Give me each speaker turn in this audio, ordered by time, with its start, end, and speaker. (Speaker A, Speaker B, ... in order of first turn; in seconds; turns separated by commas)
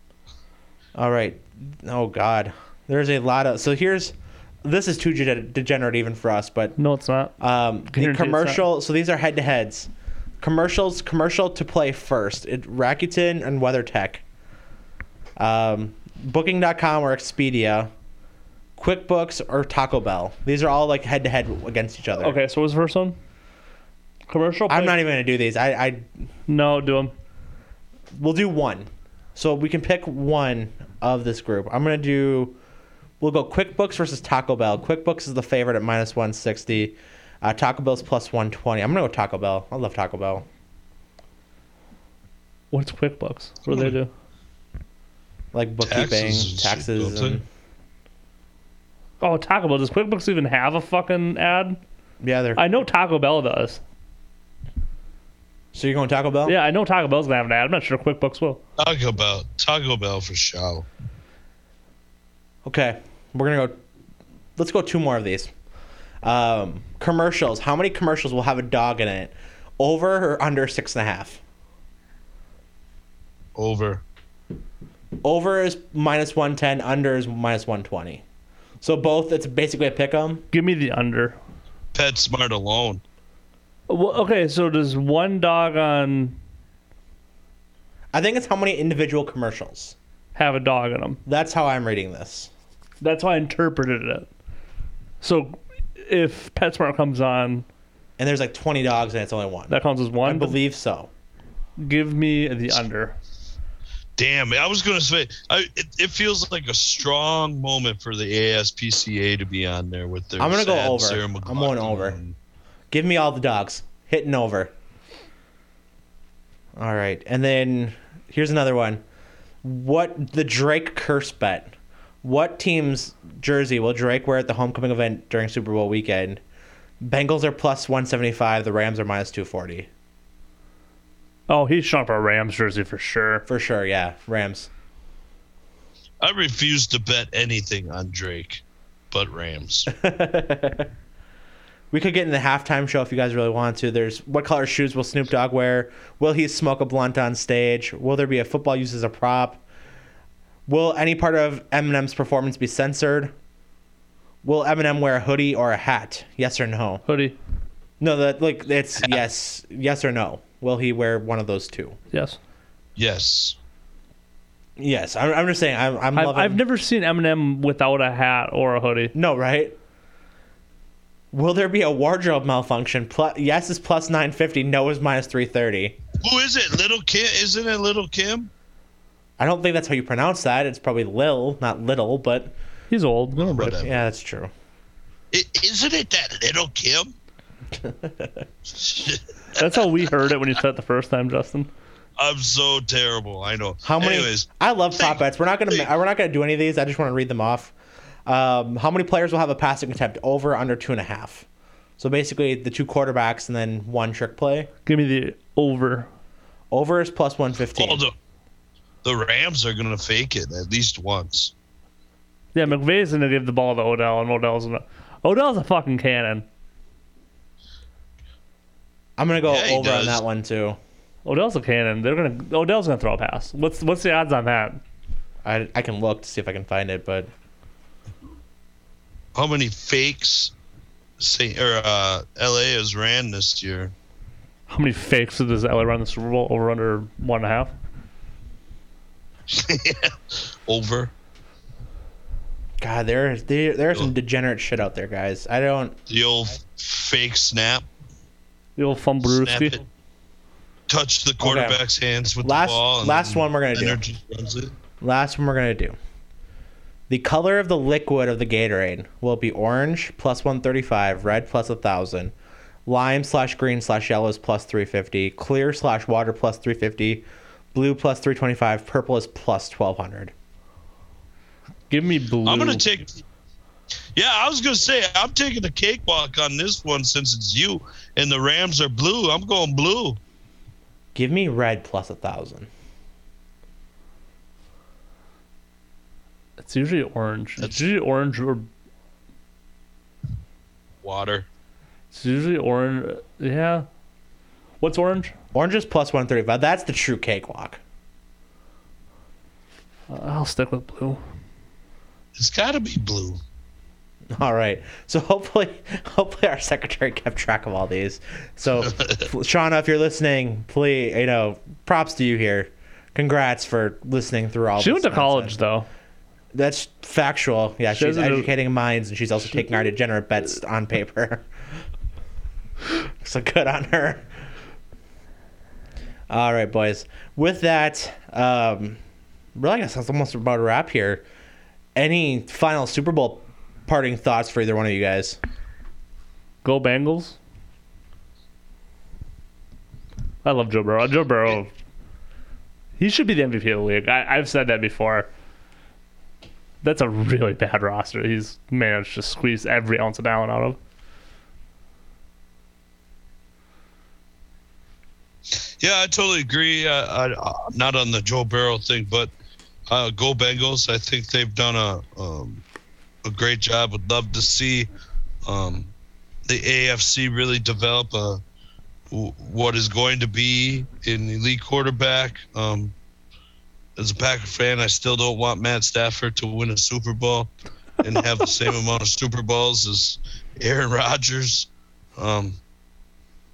Speaker A: 0.9-6.8, Speaker B: 6.8-7.3, Speaker A: 7.4-9.9, Speaker B: 7.9-8.6, Speaker A: 10.4-14.2, Speaker A: 15.4-17.9, Speaker A: 18.8-22.3, Speaker B: 22.2-23.1, Speaker B: 24.3-25.0, Speaker A: 24.7-26.0, Speaker B: 26.5-27.1, Speaker A: 28.1-32.6, Speaker A: 33.2-40.5, Speaker B: 42.7-44.1, Speaker A: 45.5-47.4, Speaker C: 45.8-47.4, Speaker B: 49.2-51.8, Speaker A: 52.2-52.6, Speaker B: 52.5-53.8, Speaker A: 55.7-56.5, Speaker B: 56.5-58.6, Speaker C: 58.8-60.9, Speaker A: 62.6-63.8, Speaker A: 64.5-65.5, Speaker A: 66.2-71.4, Speaker C: 73.5-74.0, Speaker A: 75.2-78.2, Speaker A: 78.8-80.5, Speaker B: 80.5-81.4, Speaker C: 81.9-83.0, Speaker B: 83.9-86.4, Speaker A: 88.1-90.0, Speaker B: 90.3-91.2, Speaker A: 91.2-92.5, Speaker B: 93.0-94.3, Speaker B: 95.2-97.7, Speaker A: 98.2-101.1, Speaker B: 99.7-100.5, Speaker B: 101.8-103.2, Speaker C: 104.2-112.3, Speaker A: 110.4-112.2, Speaker A: 112.9-114.7, Speaker A: 116.8-119.0, Speaker A: 119.6-126.4, Speaker A: 127.0-129.9, Speaker B: 131.5-133.4, Speaker A: 133.5-134.7, Speaker C: 136.2-139.9, Speaker A: 139.9-140.9, Speaker A: 141.9-149.6, Speaker A: 150.7-153.3, Speaker A: 154.4-157.0, Speaker B: 157.1-157.3, Speaker A: 158.0-162.0, Speaker B: 162.1-162.4, Speaker C: 162.9-163.6, Speaker A: 164.8-166.6, Speaker B: 166.1-169.1, Speaker A: 169.1-169.8, Speaker A: 171.3-176.0, Speaker C: 176.2-178.5, Speaker A: 179.4-182.5, Speaker B: 182.9-183.8, Speaker C: 183.3-184.0, Speaker A: 183.8-184.5, Speaker C: 185.3-187.1, Speaker A: 187.8-188.4, Speaker C: 188.8-189.8, Speaker B: 189.5-191.7, Speaker C: 192.2-195.2, Speaker A: 193.8-197.7, Speaker A: 198.2-201.4, Speaker A: 202.0-204.7, Speaker B: 204.8-206.1, Speaker A: 206.7-208.0, Speaker C: 207.7-208.1, Speaker C: 209.0-211.5, Speaker B: 212.5-216.4, Speaker A: 219.2-220.8, Speaker C: 219.5-220.2, Speaker B: 221.2-224.8, Speaker A: 225.4-227.3, Speaker C: 229.3-230.5, Speaker C: 231.2-233.9, Speaker B: 234.7-237.7, Speaker C: 239.5-241.1, Speaker A: 242.8-245.9, Speaker C: 246.1-247.8, Speaker B: 248.8-249.8, Speaker C: 249.2-249.8, Speaker C: 250.9-254.8, Speaker A: 251.4-251.8, Speaker A: 252.4-254.0, Speaker A: 255.0-255.9, Speaker A: 257.1-262.3, Speaker A: 262.9-270.3, Speaker B: 271.9-272.8, Speaker C: 272.4-273.2, Speaker C: 274.1-280.2, Speaker A: 281.1-282.7, Speaker B: 286.6-288.7, Speaker C: 287.6-287.8, Speaker C: 291.0-291.4, Speaker B: 292.1-293.9, Speaker B: 294.8-295.3, Speaker A: 295.5-297.8, Speaker B: 300.1-301.2, Speaker C: 302.4-303.4, Speaker A: 304.3-315.6, Speaker B: 314.8-315.9, Speaker A: 316.5-321.5, Speaker B: 317.9-318.5, Speaker A: 322.9-324.3, Speaker A: 326.3-329.0, Speaker A: 329.5-331.2, Speaker A: 331.9-335.4, Speaker B: 336.6-337.4, Speaker B: 340.4-341.7, Speaker B: 343.0-345.3, Speaker B: 346.8-350.8, Speaker C: 355.8-359.3, Speaker C: 359.9-362.6, Speaker C: 363.2-364.9, Speaker C: 365.4-365.9, Speaker C: 366.5-368.4, Speaker C: 369.1-372.9, Speaker C: 374.0-382.6